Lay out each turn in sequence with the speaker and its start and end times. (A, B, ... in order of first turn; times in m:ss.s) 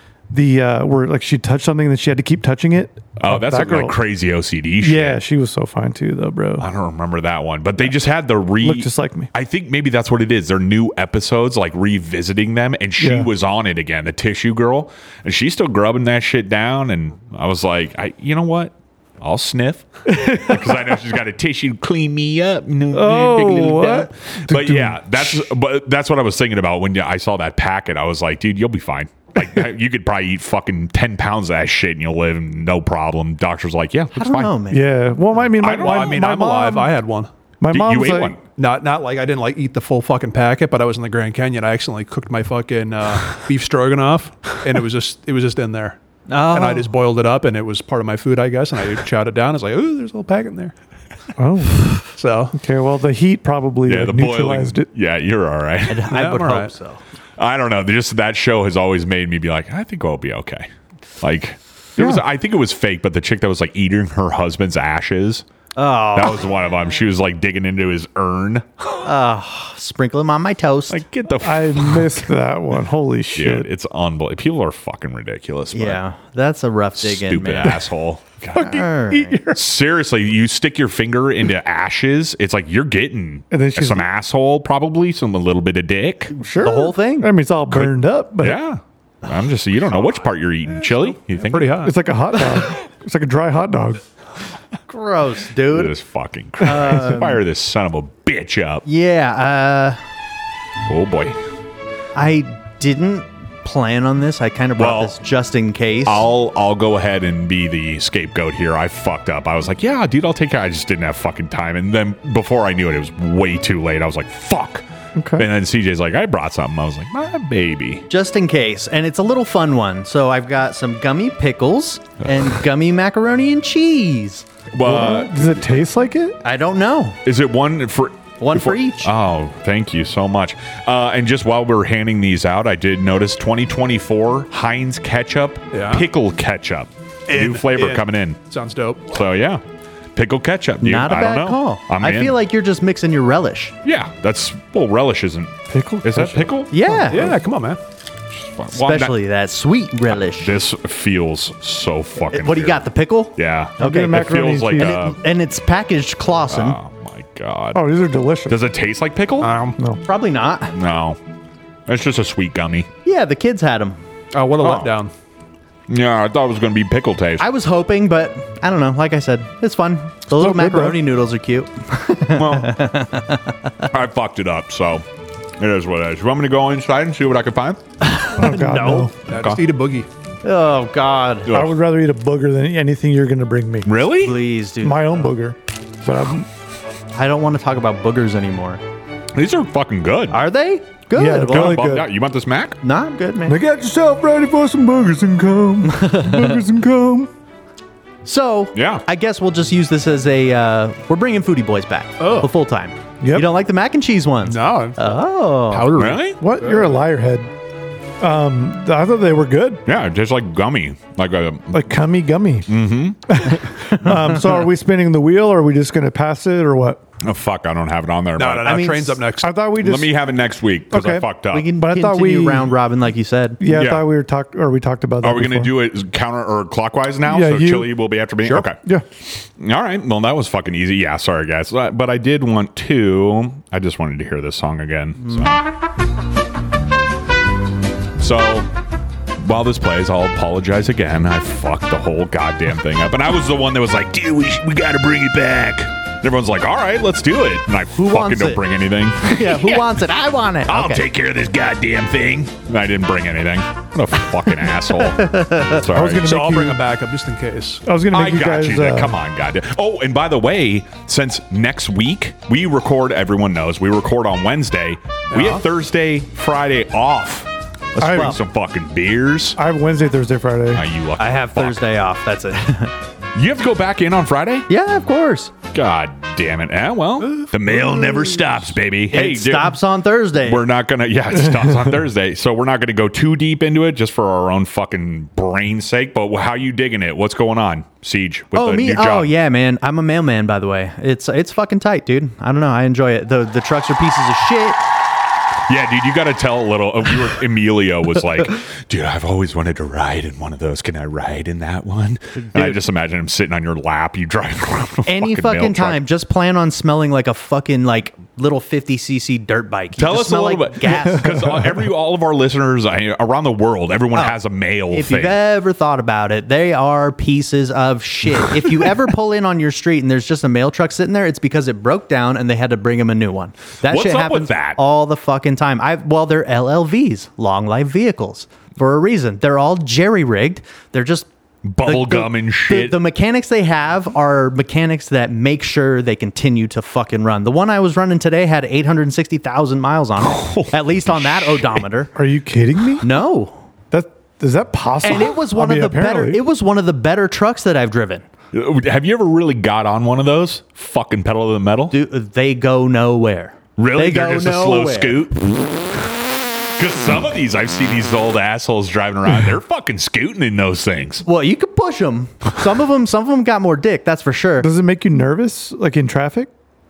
0:00.3-0:04.0 A
0:03.2-0:05.2 B
0:04.8-0:06.7 A
0:06.6-0:34.5 B
0:08.6-0:09.3 A
0:13.0-0:13.3 A
0:20.1-0:21.0 A
0:22.9-0:25.4 A
0:34.2-0:35.0 C
0:34.7-0:36.9 A
0:35.6-0:36.3 B
0:35.6-0:37.3 D
0:37.6-0:38.4 A
0:37.7-0:38.4 B
0:38.6-0:50.7 D
0:46.3-0:46.9 C
0:51.4-0:54.9 A
0:52.2-0:52.6 D
0:53.9-0:56.2 B
0:55.9-0:57.0 C
0:56.1-0:56.7 D
0:57.4-1:00.7 B
1:01.2-1:05.4 B
1:05.8-1:06.4 C
1:06.1-1:09.1 B
1:09.0-1:11.0 C
1:10.9-1:12.2 B
1:11.4-1:13.7 A
1:13.4-1:16.0 B
1:15.7-1:17.9 C
1:17.0-1:18.9 B
1:18.6-1:19.6 A
1:18.6-1:19.4 C
1:19.5-1:26.3 B
1:23.5-1:24.1 A
1:26.4-1:28.6 A
1:26.6-1:27.3 C
1:27.7-1:31.9 B
1:30.9-1:32.0 D
1:31.8-1:34.0 A
1:34.9-1:35.9 C
1:35.7-1:38.8 B
1:36.6-1:37.4 C
1:38.8-1:40.0 C
1:40.9-1:41.4 B
1:42.2-1:46.2 C
1:44.8-1:45.2 B
1:46.0-1:54.8 B
1:55.2-1:55.5 A
1:55.4-1:58.1 B
1:58.1-2:04.5 C
2:04.7-2:05.8 B
2:04.8-2:06.4 A
2:06.4-2:07.2 C
2:07.2-2:18.4 B
2:08.4-2:09.1 C
2:15.7-2:16.1 D
2:17.3-2:19.1 D
2:19.1-2:19.6 B
2:20.2-2:22.4 B
2:20.8-2:23.8 C
2:23.8-2:26.7 B
2:25.7-2:27.4 A
2:26.7-2:27.3 C
2:27.1-2:27.8 D
2:28.3-2:29.2 B
2:28.7-2:30.6 C
2:30.1-2:35.2 B
2:32.3-2:36.8 C
2:33.8-2:35.0 A
2:36.5-2:37.9 B
2:37.7-2:38.6 A
2:38.5-2:39.6 B
2:39.4-2:39.8 D
2:40.0-2:40.8 C
2:40.7-2:41.2 B
2:41.9-2:42.9 B
2:43.0-2:44.0 C
2:44.3-2:45.1 D
2:44.6-2:45.0 B
2:45.9-2:47.5 B
2:47.4-2:53.8 C
2:50.3-2:51.0 A
2:52.3-2:52.8 B
2:53.9-2:55.0 B
2:55.6-2:57.8 B
2:58.0-2:59.1 C
2:58.4-2:59.1 A
2:59.3-2:59.6 B
2:59.3-3:00.1 D
3:00.4-3:01.5 C
3:01.4-3:01.8 B
3:01.5-3:03.9 A
3:03.8-3:04.4 B
3:04.2-3:05.3 C
3:04.8-3:06.5 A
3:07.1-3:08.8 C
3:09.4-3:10.4 B
3:10.3-3:11.8 C
3:11.2-3:12.1 A
3:11.3-3:12.8 B
3:12.8-3:13.6 C
3:13.5-3:17.3 A
3:15.8-3:16.6 C
3:18.2-3:26.0 C
3:18.7-3:19.0 B
3:22.2-3:22.5 D
3:23.2-3:23.5 A
3:24.4-3:25.0 D
3:25.7-3:26.9 D
3:26.0-3:26.4 B
3:26.4-3:27.5 A
3:28.2-3:29.8 A
3:29.9-3:31.9 B
3:31.7-3:32.7 A
3:32.7-3:33.6 B
3:33.3-3:37.0 A
3:37.2-3:39.0 B
3:38.4-3:39.5 D
3:38.6-3:39.2 C
3:39.4-3:40.1 A
3:39.8-3:41.7 B
3:40.9-3:42.7 A
3:41.5-3:43.6 C
3:43.6-3:45.7 A
3:43.7-3:44.1 B
3:45.2-3:55.6 B
3:47.3-3:48.0 A
3:48.7-3:49.0 A
3:55.3-3:55.5 C
3:58.2-3:58.7 B
3:59.4-4:10.0 B
4:08.0-4:08.6 C
4:09.2-4:11.1 C
4:10.7-4:16.3 B
4:15.0-4:15.8 C
4:15.9-4:16.8 A
4:16.2-4:17.8 D
4:17.9-4:19.2 A
4:18.1-4:29.6 B
4:25.3-4:25.6 D
4:28.0-4:28.4 A
4:28.0-4:28.4 C
4:29.6-4:30.8 A
4:30.7-4:31.8 B
4:31.2-4:32.9 C
4:33.4-4:34.7 B
4:34.7-4:35.5 C
4:35.7-4:39.8 B
4:39.1-4:40.6 C
4:40.4-4:49.3 B
4:48.5-4:54.8 C
4:55.7-5:06.0 B
5:05.1-5:11.7 C
5:10.0-5:15.4 B
5:14.9-5:31.3 C
5:23.8-5:24.8 B
5:31.6-5:33.0 B
5:31.8-5:42.1 C
5:40.2-5:41.9 B
5:42.1-5:43.1 A
5:43.0-5:43.6 C
5:43.9-5:46.4 A
5:45.0-5:48.2 C
5:48.5-5:52.0 B
5:51.9-5:55.3 C
5:53.8-5:56.0 B
5:56.8-6:01.2 B
6:01.2-6:04.7 C
6:04.6-6:06.5 A